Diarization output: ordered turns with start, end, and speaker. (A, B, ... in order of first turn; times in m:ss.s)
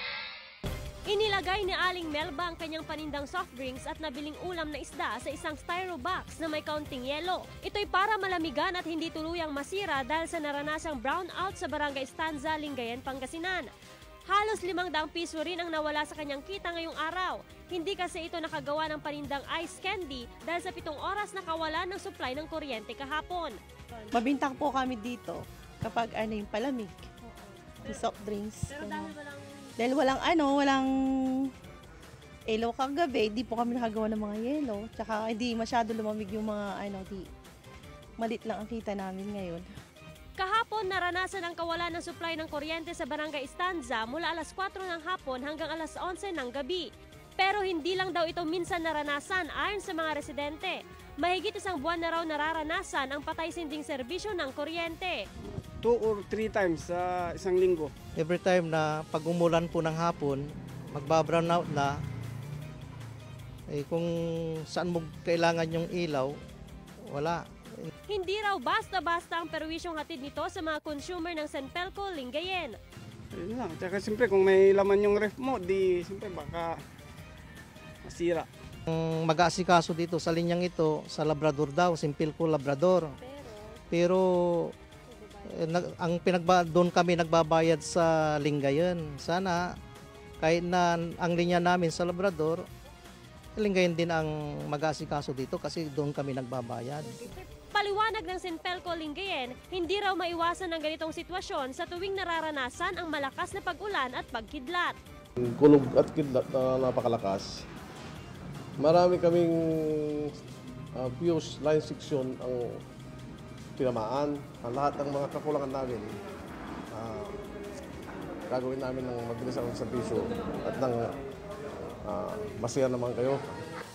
0:01.0-0:13.7 A
0:14.3-0:23.6 A
0:24.1-0:27.0 B
0:27.8-0:29.1 B
0:28.8-0:29.4 A
0:29.8-0:31.5 B
0:32.5-0:37.3 B
0:38.2-0:39.7 B
0:40.4-0:55.2 A
0:55.8-0:57.9 C
0:58.2-1:02.0 D
1:03.7-1:06.4 D
1:07.1-1:07.9 D
1:08.1-1:12.8 A
1:13.3-1:16.8 C
1:18.0-1:18.5 C
1:18.9-1:23.2 D
1:23.9-1:24.7 D
1:25.5-1:29.7 D
1:30.4-1:32.6 D
1:33.6-1:37.2 D
1:37.7-1:44.9 A
1:45.4-1:47.6 E
1:48.8-1:50.4 E
1:50.9-1:52.8 E
1:53.8-1:56.2 E
1:56.9-1:57.4 E
1:58.5-2:01.2 E
2:02.0-2:03.6 E